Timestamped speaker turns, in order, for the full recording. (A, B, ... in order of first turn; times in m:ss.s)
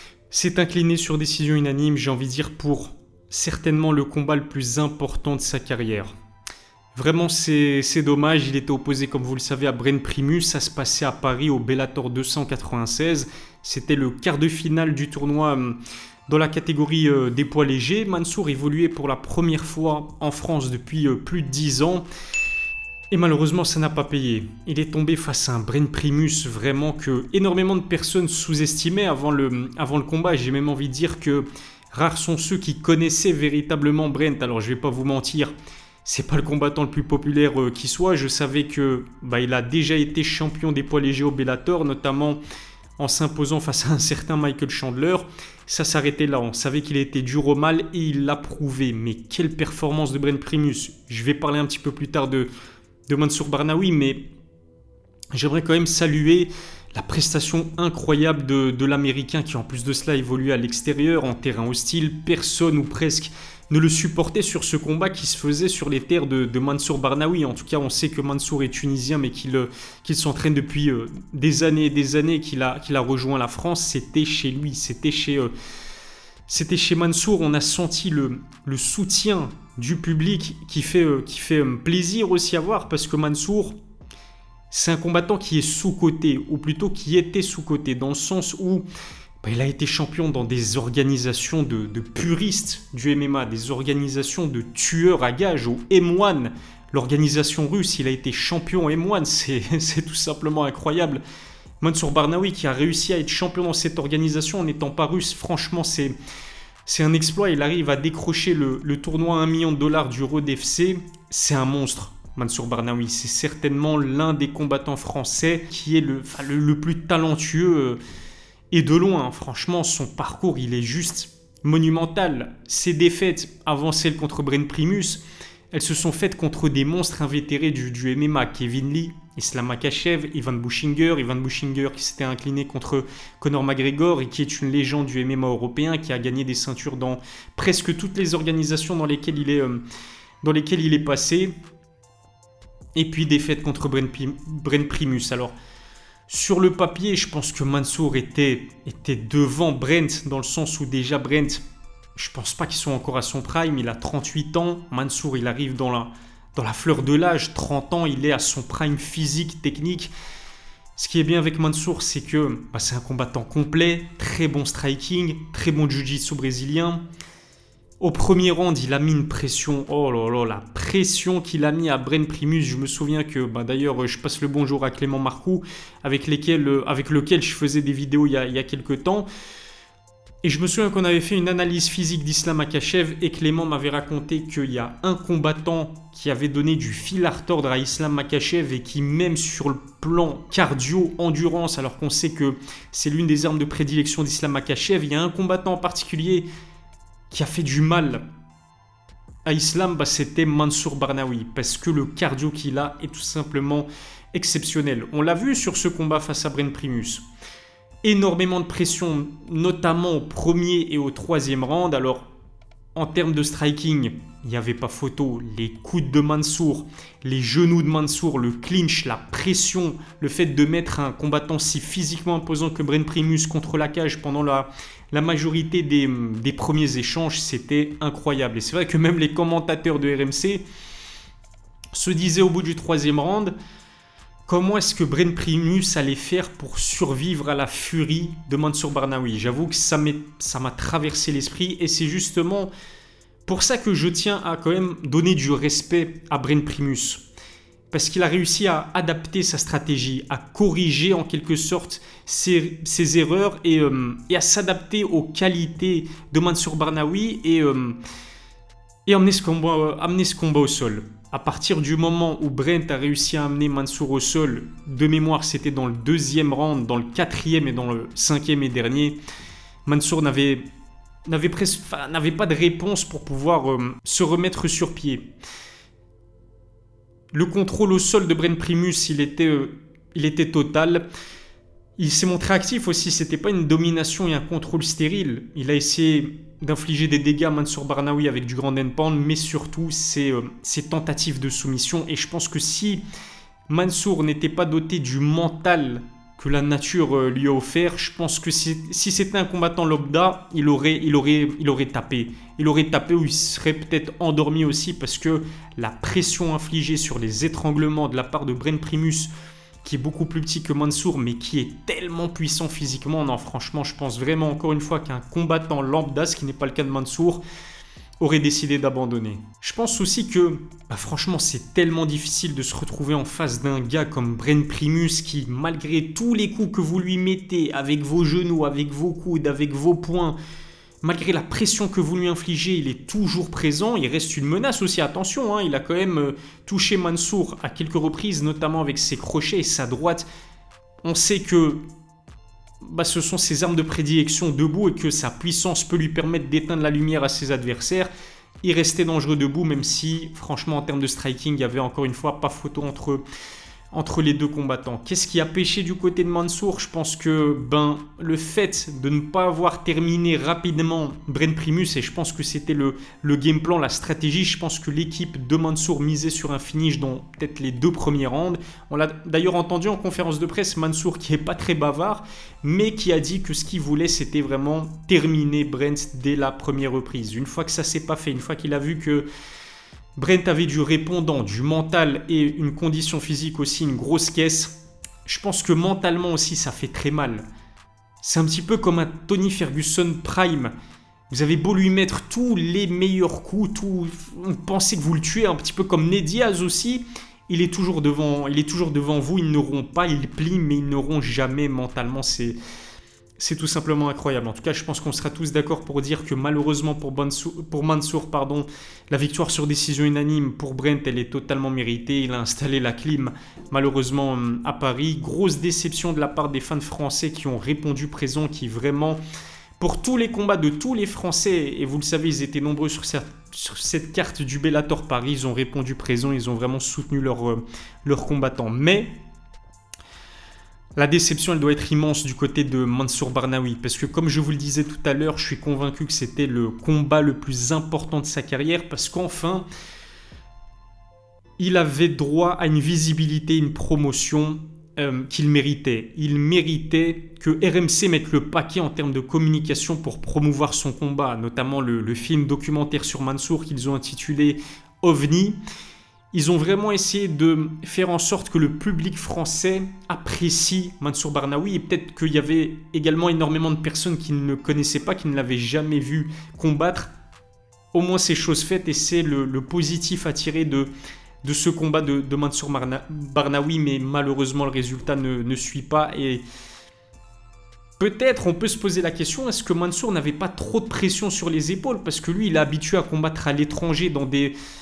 0:00.3-0:06.1 A
0:06.9-0:15.8 A
0:16.3-0:22.0 A
0:23.1-0:35.5 A
0:36.0-0:42.4 A
0:43.0-0:52.5 A
0:53.1-0:54.2 A
0:55.3-1:15.5 A
1:16.5-1:23.8 A
1:24.7-1:28.8 A
1:29.4-1:41.2 A
1:41.8-1:46.2 A
1:46.8-1:58.0 A
1:58.7-2:19.8 A
2:20.4-2:21.5 A
2:22.9-2:25.5 A
2:26.3-2:31.6 A
2:32.2-2:40.1 A
2:41.0-2:47.0 A
2:48.0-2:59.3 A
3:00.4-3:16.5 A
3:17.3-3:18.2 A
3:19.4-3:27.2 A
3:28.0-3:32.3 A
3:32.9-3:50.6 A
3:51.9-3:53.5 A
3:54.4-4:02.7 A
4:03.4-4:07.2 A
4:07.9-4:18.0 A
4:19.0-4:29.2 A
4:29.8-4:30.6 A
4:31.2-4:35.2 A
4:37.3-4:41.1 A
4:42.0-4:53.0 A
4:53.7-5:09.3 A
5:09.8-5:17.4 A
5:18.2-5:30.4 A
5:31.0-5:40.3 A
5:41.0-5:41.8 A
5:42.8-5:48.1 A
5:48.6-5:53.2 A
5:53.9-6:19.2 A
6:20.2-6:24.7 A
6:25.2-6:27.4 A
6:28.2-6:30.7 A
6:31.3-6:42.6 A
6:43.4-6:59.2 A
6:59.8-7:09.1 A
7:11.0-7:19.7 A
7:21.6-7:35.6 A
7:36.3-7:47.1 A
7:47.9-7:50.9 A
7:51.4-7:56.4 A
7:58.0-8:04.5 A